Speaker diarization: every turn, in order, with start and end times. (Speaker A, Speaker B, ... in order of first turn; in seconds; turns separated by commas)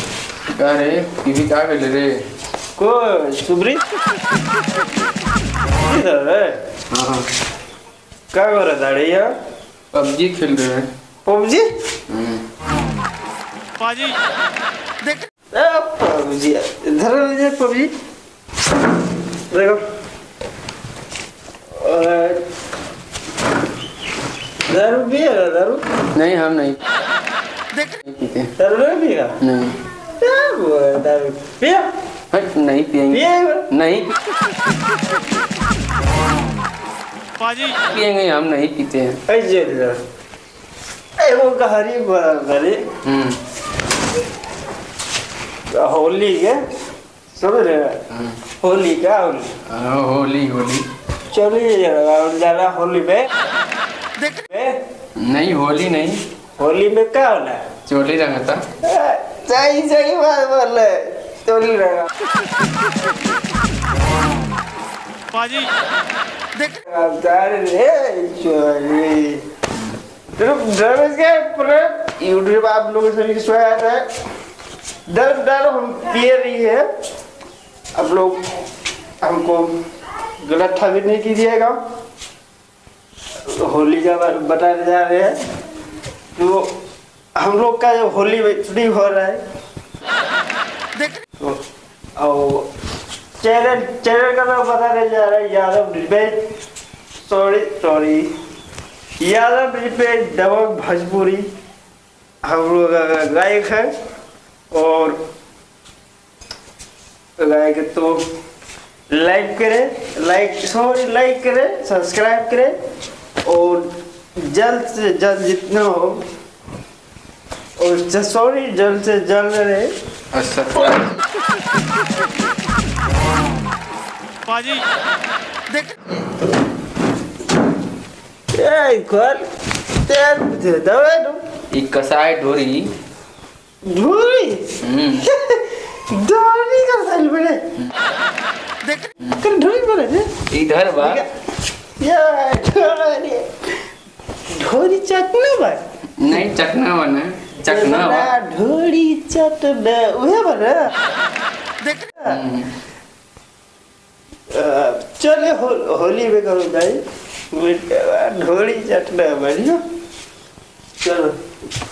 Speaker A: 0.5-2.2, Speaker B: 2.8-3.8, Speaker B: 5.8-6.6, Speaker A: 6.9-7.2, Speaker B: 8.3-9.3, Speaker A: 9.9-10.9, Speaker B: 11.2-11.7, Speaker A: 12.1-12.4, Speaker B: 15.5-17.9, Speaker B: 19.5-19.8, Speaker B: 21.7-22.4, Speaker B: 24.7-25.8, Speaker A: 26.1-26.8, Speaker A: 28.0-28.5, Speaker B: 28.6-29.4, Speaker A: 29.4-29.8, Speaker B: 30.2-31.9, Speaker A: 32.3-34.1, Speaker B: 33.1-33.7, Speaker A: 37.8-39.2, Speaker B: 39.3-40.0, Speaker B: 41.2-42.8, Speaker A: 43.0-43.4, Speaker B: 45.7-46.6, Speaker B: 47.3-48.0, Speaker B: 48.6-49.5, Speaker A: 49.6-50.8, Speaker B: 51.3-53.3, Speaker B: 54.5-54.8, Speaker A: 55.1-56.2, Speaker B: 56.6-57.6, Speaker A: 57.9-58.6, Speaker B: 58.8-62.1, Speaker B: 66.9-69.4, Speaker B: 70.4-74.1, Speaker B: 75.1-76.8, Speaker B: 77.9-78.4, Speaker B: 79.2-79.7, Speaker B: 80.4-81.8, Speaker B: 83.5-85.4, Speaker B: 86.3-86.7, Speaker B: 87.3-89.4, Speaker B: 92.2-92.7, Speaker B: 93.4-96.4, Speaker B: 97.2-98.3, Speaker B: 99.2-101.5, Speaker B: 102.4-103.9, Speaker B: 104.7-105.2, Speaker B: 107.4-108.2, Speaker B: 109.1-112.8, Speaker B: 113.4-116.2, Speaker B: 117.8-119.9, Speaker A: 120.3-121.1, Speaker B: 128.5-129.4, Speaker B: 130.0-131.4, Speaker A: 131.7-132.9, Speaker B: 133.8-137.6, Speaker A: 134.8-135.2, Speaker B: 139.3-140.3, Speaker A: 140.5-141.2, Speaker B: 140.9-141.3, Speaker B: 142.0-143.5, Speaker B: 144.5-145.8, Speaker A: 146.2-148.3, Speaker B: 147.6-150.9, Speaker B: 152.1-152.4, Speaker A: 152.2-152.7, Speaker B: 154.5-159.8, Speaker B: 161.0-161.3